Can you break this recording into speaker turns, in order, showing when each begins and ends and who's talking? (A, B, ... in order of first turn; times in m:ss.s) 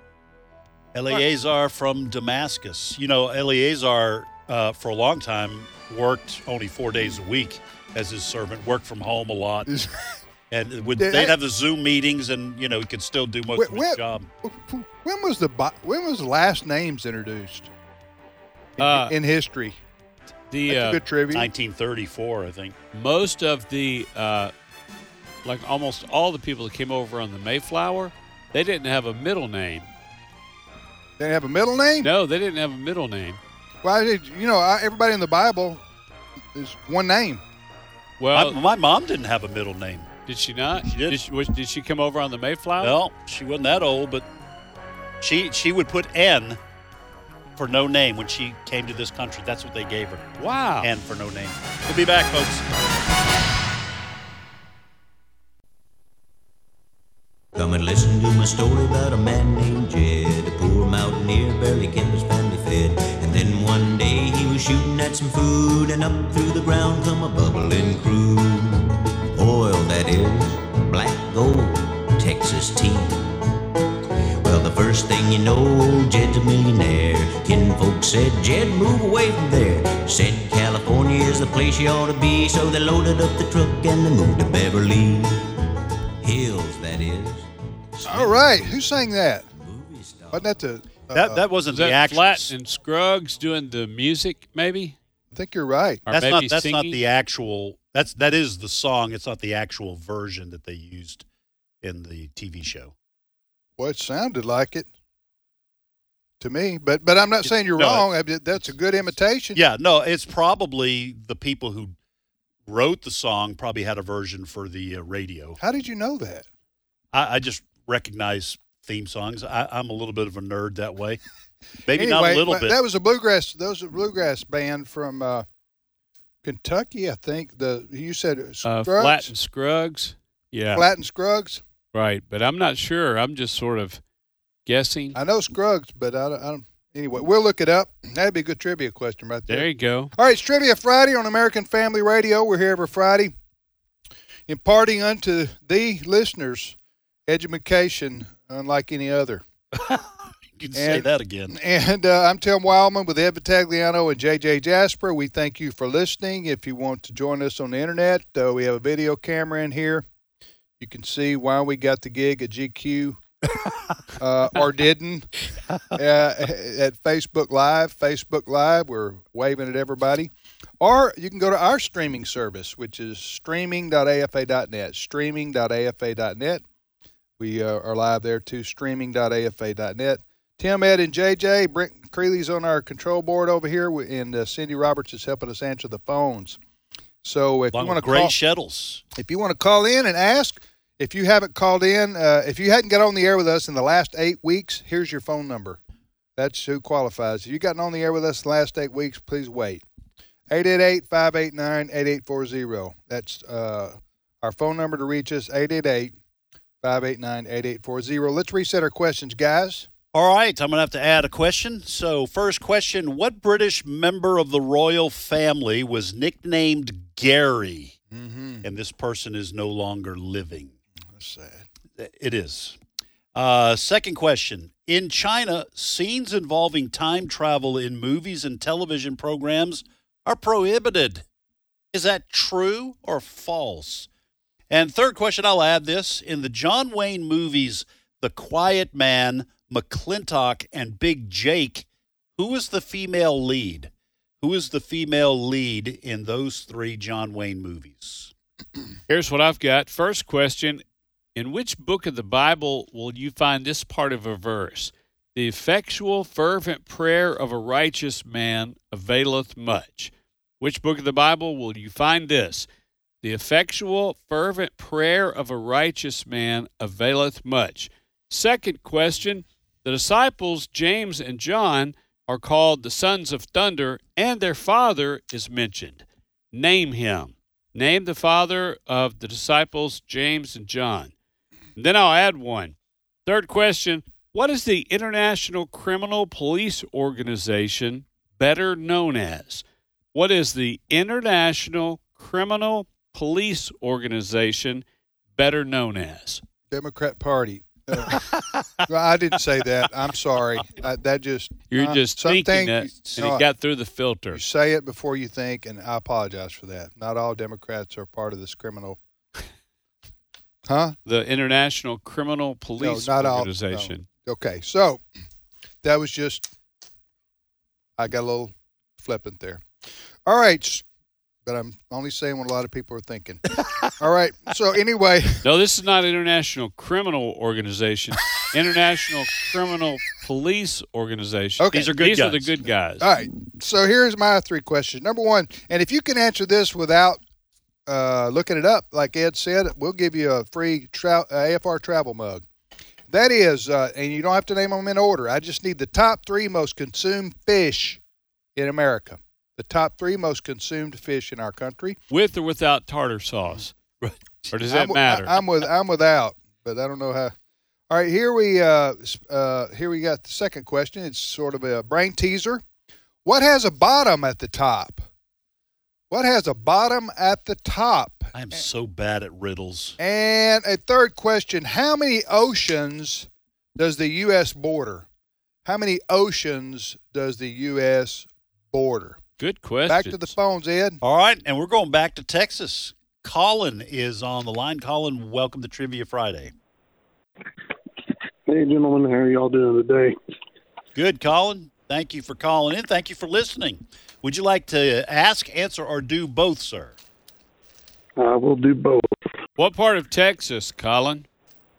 0:00.9-0:09.7 A
0:09.7-0:09.9 B
0:10.5-0:14.3 A
0:11.0-0:11.4 B
0:13.6-0:17.7 B
0:18.8-0:19.8 B
0:18.8-0:19.1 C
0:20.5-0:21.0 C
0:20.7-0:21.5 B
0:21.3-0:22.8 A
0:22.9-0:24.5 C
0:25.4-0:29.9 C
0:31.2-0:32.1 B
0:32.0-0:33.4 C
0:33.8-0:35.8 B
0:36.5-0:37.4 B
0:38.2-0:38.6 C
0:38.3-0:40.1 A
0:40.3-0:43.0 C
0:40.9-0:41.2 A
0:42.8-0:44.2 A
0:45.2-0:46.6 A
0:47.6-0:52.7 A
0:50.4-0:50.9 C
0:57.6-1:13.4 D
1:14.4-1:25.5 D
1:26.2-1:29.0 D
1:28.1-1:29.5 B
1:29.5-1:30.5 D
1:30.3-1:31.4 B
1:31.1-1:32.5 A
1:31.7-1:35.0 C
1:35.3-1:36.0 B
1:36.1-1:37.0 C
1:36.1-1:41.2 A
1:41.8-1:42.9 A
1:43.8-1:44.9 B
1:46.4-1:49.6 B
1:47.7-1:48.1 A
1:49.6-1:52.0 A
1:52.7-1:55.6 A
1:55.6-1:56.5 B
1:57.1-2:01.2 A
2:01.9-2:02.8 A
2:01.9-2:05.5 B
2:06.4-2:09.3 B
2:08.6-2:10.9 C
2:10.7-2:11.6 B
2:11.9-2:14.0 C
2:14.7-2:15.2 C
2:15.2-2:23.3 B
2:19.5-2:20.1 C
2:24.5-2:26.8 B
2:27.3-2:29.4 B
2:29.8-2:31.6 A
2:30.7-2:40.1 B
2:40.8-2:43.2 B
2:44.2-2:45.3 B
2:45.9-2:56.6 B
2:57.4-3:06.6 B
3:07.2-3:08.3 B
3:07.7-3:09.0 A
3:09.2-3:15.8 B
3:16.4-3:19.8 B
3:20.5-3:26.2 B
3:26.8-3:29.9 B
3:30.1-3:38.0 A
3:38.1-3:38.7 B
3:38.6-3:40.7 A
3:41.1-3:41.7 B
3:42.0-3:42.8 A
3:43.4-3:51.2 A
3:51.9-3:54.1 A
3:54.7-4:01.9 A
4:02.4-4:03.9 A
4:04.4-4:08.3 A
4:09.1-4:10.8 C
4:11.4-4:22.7 C
4:23.2-4:41.1 C
4:41.8-4:42.7 C
4:43.2-4:54.8 C
4:55.4-4:56.4 C
4:56.7-4:58.2 B
4:58.9-5:03.5 B
5:01.7-5:04.4 C
5:04.3-5:09.0 B
5:10.7-5:11.0 B
5:11.1-5:14.1 C
5:12.8-5:15.0 B
5:15.8-5:16.5 B
5:18.0-5:19.7 B
5:20.3-5:20.8 B
5:21.5-5:23.4 B
5:24.0-5:25.4 B
5:25.4-5:33.1 C
5:31.6-5:31.9 B
5:31.7-5:32.5 A
5:33.0-5:37.2 B
5:37.9-5:42.4 B
5:43.1-5:48.0 B
5:48.6-5:52.0 B
5:52.1-5:53.7 C
5:54.5-5:55.4 C
5:54.7-5:57.3 B
5:57.9-6:02.6 B
6:03.2-6:05.1 B
6:06.1-6:08.6 B
6:08.3-6:10.0 A
6:10.0-6:15.1 B
6:15.6-6:19.2 B
6:19.4-6:20.3 C
6:19.9-6:21.0 B
6:21.0-6:26.5 A
6:28.5-6:30.2 E
6:31.0-6:37.0 A
6:38.2-6:39.0 E
6:39.6-6:41.3 C